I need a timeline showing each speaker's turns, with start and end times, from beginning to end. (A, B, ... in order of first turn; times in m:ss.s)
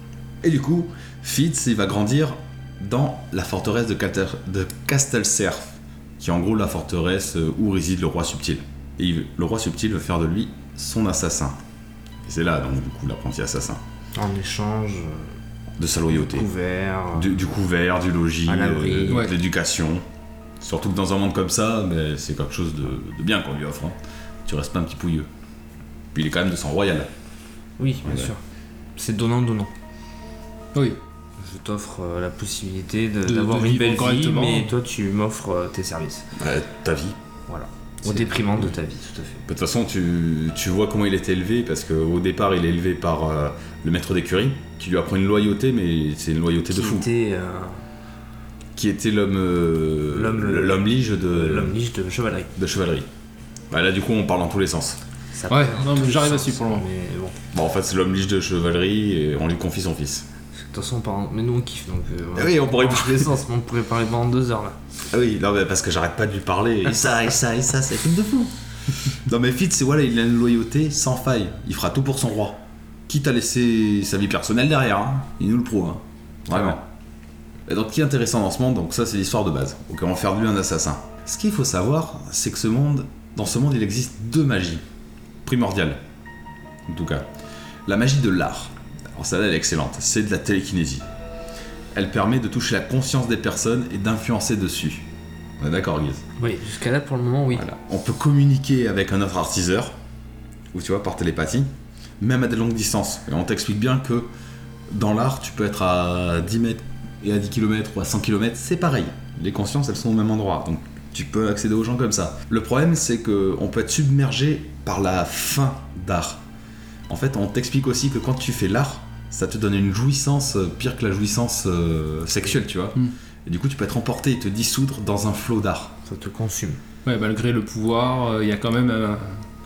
0:00.4-0:11.6 A
0:12.2-0:13.8 A
0:14.1-0:15.3 B
0:15.8-0:16.5 A
0:16.1-0:17.3 B
0:17.1-0:20.0 A
0:18.4-0:19.3 B
0:20.6-0:25.3 A
0:26.1-0:27.1 A
0:27.8-0:28.4 B
0:28.0-0:28.3 A
0:29.0-0:29.7 B
0:31.4-0:36.3 B
0:33.2-0:34.7 C
0:36.3-0:37.2 A
0:37.5-0:39.4 B
0:39.5-0:47.1 A
0:46.7-0:47.8 B
0:48.8-0:51.7 A
0:50.1-0:52.5 B
0:52.6-0:53.1 A
0:53.7-0:55.0 A
0:55.3-0:57.4 B
0:55.5-0:56.9 C
0:57.5-1:00.3 A
1:00.6-1:04.8 B
1:02.3-1:03.3 A
1:05.1-1:16.8 A
1:17.7-1:24.8 A
1:25.4-1:26.0 A
1:26.9-1:27.3 A
1:27.9-1:31.0 A
1:31.9-1:35.0 A
1:35.6-1:36.2 A
1:36.4-1:37.6 B
1:37.5-1:40.0 A
1:40.7-1:44.3 A
1:44.9-1:56.4 A
1:57.1-2:05.9 A
2:06.0-2:06.8 B
2:07.0-2:09.4 C